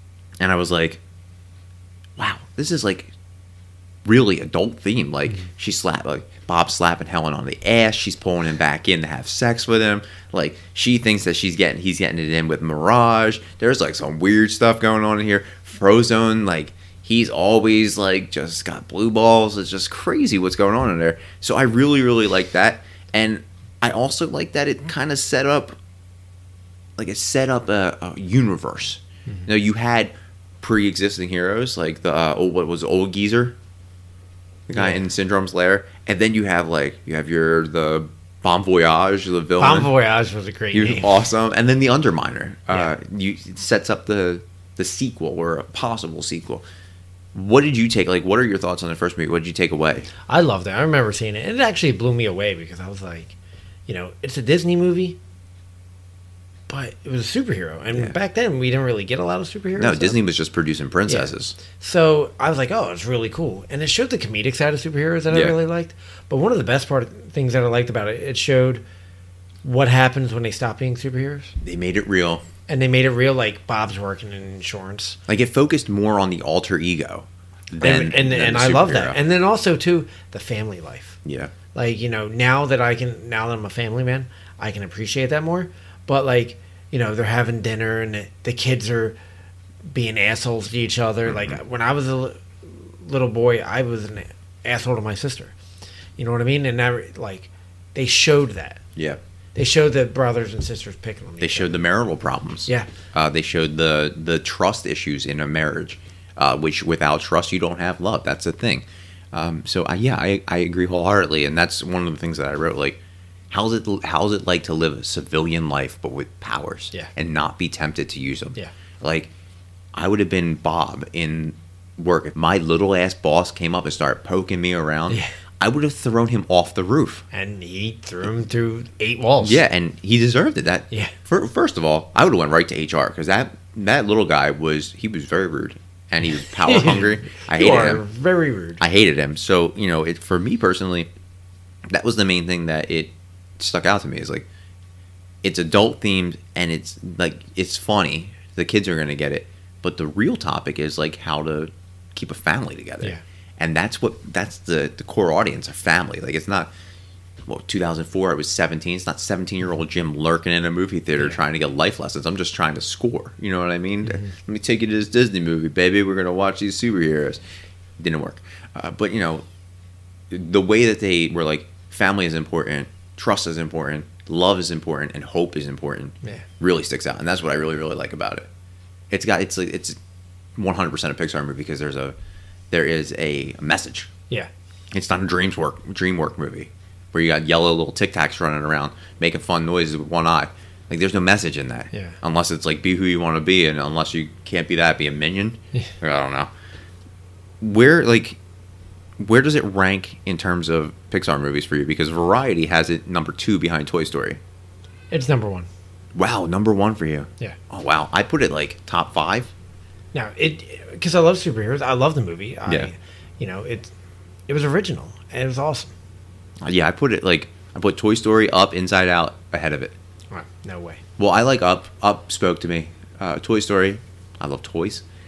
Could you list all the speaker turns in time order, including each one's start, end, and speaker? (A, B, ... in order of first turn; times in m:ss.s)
0:00.4-0:01.0 A
0:02.2-0:03.1 A
0:04.0-0:25.8 A
0:27.0-0:33.6 A
0:34.7-0:39.9 A
0:34.8-0:35.0 B
0:39.6-0:41.2 B
0:40.7-0:46.7 A
0:47.3-0:50.1 A
0:50.3-0:53.4 B
0:53.9-0:55.2 B
0:56.7-1:00.2 B
0:59.8-1:01.6 A
1:01.1-1:08.8 B
1:05.3-1:05.6 A
1:09.6-1:11.6 B
1:11.6-1:12.4 A
1:12.7-1:15.2 B
1:15.3-1:19.2 A
1:17.8-1:21.2 B
1:21.2-1:21.5 A
1:21.7-1:29.2 B
1:29.9-1:35.6 B
1:31.3-1:31.6 A
1:36.2-1:38.8 B
1:39.6-1:41.8 B
1:41.4-1:53.0 A
1:53.5-1:59.3 A
2:00.0-2:07.2 A
2:07.3-2:09.6 B
2:09.4-2:18.0 A
2:16.5-2:18.8 B
2:18.8-2:21.1 A
2:21.9-2:24.5 A
2:25.4-2:36.7 A
2:37.5-2:47.4 A
2:44.0-2:44.3 B
2:48.0-2:49.4 A
2:50.3-2:58.5 A
2:59.1-3:00.0 A
3:00.6-3:02.2 A
3:02.7-3:04.1 A
3:04.9-3:16.5 A
3:11.9-3:12.2 B
3:17.6-3:18.4 A
3:19.2-3:24.4 A
3:25.1-3:25.7 B
3:26.2-3:29.5 A
3:30.1-3:33.9 B
3:34.5-3:35.9 B
3:36.6-3:40.0 A
3:40.3-3:41.0 B
3:41.2-3:45.0 A